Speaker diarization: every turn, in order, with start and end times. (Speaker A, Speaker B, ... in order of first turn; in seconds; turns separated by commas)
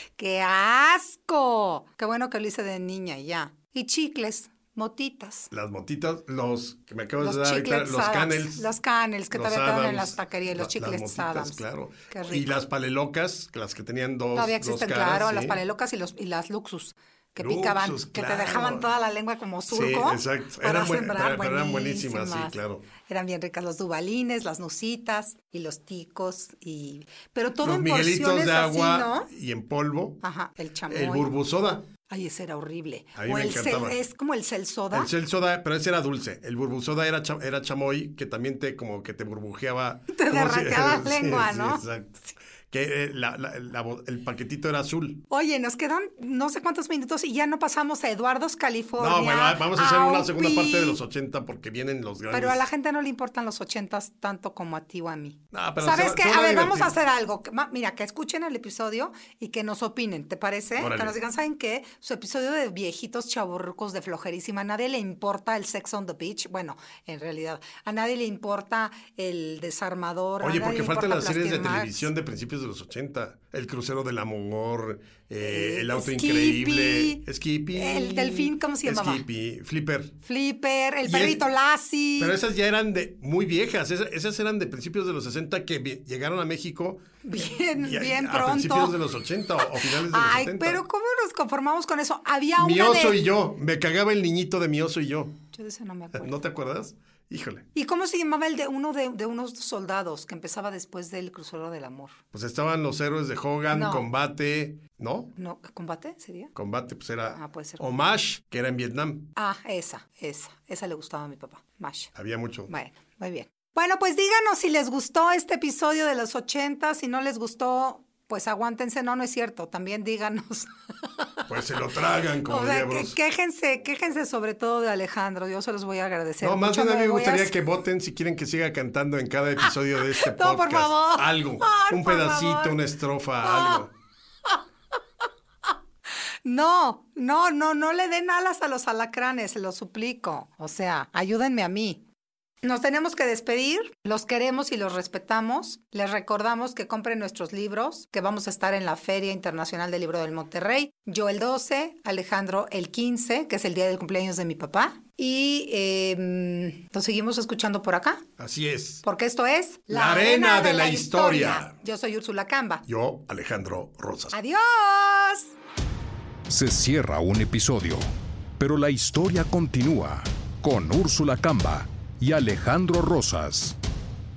Speaker A: 0.2-5.5, Speaker B: 5.5-8.7, Speaker A: 7.2-12.6, Speaker B: 9.3-15.6, Speaker A: 14.3-29.3, Speaker B: 17.4-18.9, Speaker B: 19.7-22.9, Speaker B: 27.6-30.2, Speaker A: 30.2-31.3, Speaker B: 30.9-31.9, Speaker A: 32.0-35.1, Speaker B: 33.2-34.0, Speaker B: 34.9-45.2, Speaker A: 40.1-41.8, Speaker A: 45.3-51.0, Speaker B: 49.0-52.6, Speaker A: 52.3-72.1, Speaker B: 55.5-57.0, Speaker B: 60.8-61.2, Speaker B: 70.4-80.2, Speaker A: 75.4-79.2, Speaker A: 80.2-82.4, Speaker B: 81.1-81.5, Speaker B: 82.2-87.0, Speaker A: 87.2-89.0, Speaker B: 87.8-90.8, Speaker A: 89.6-93.2, Speaker B: 92.6-95.4, Speaker A: 95.5-96.3, Speaker B: 96.1-97.7, Speaker A: 97.8-102.2, Speaker B: 102.3-105.3, Speaker A: 103.7-104.1, Speaker A: 105.4-106.5, Speaker B: 106.5-109.3, Speaker A: 107.3-107.8, Speaker A: 109.4-112.1, Speaker B: 112.2-112.7, Speaker A: 112.7-121.5, Speaker B: 121.5-123.2, Speaker A: 122.5-127.5, Speaker B: 126.4-133.9, Speaker A: 130.0-132.8, Speaker A: 133.4-133.9, Speaker A: 136.4-142.0, Speaker A: 142.6-158.2, Speaker B: 158.4-159.0, Speaker A: 159.0-162.8, Speaker B: 159.9-161.7, Speaker B: 162.9-164.3, Speaker A: 164.3-165.5, Speaker C: 166.5-168.1, Speaker C: 168.6-173.8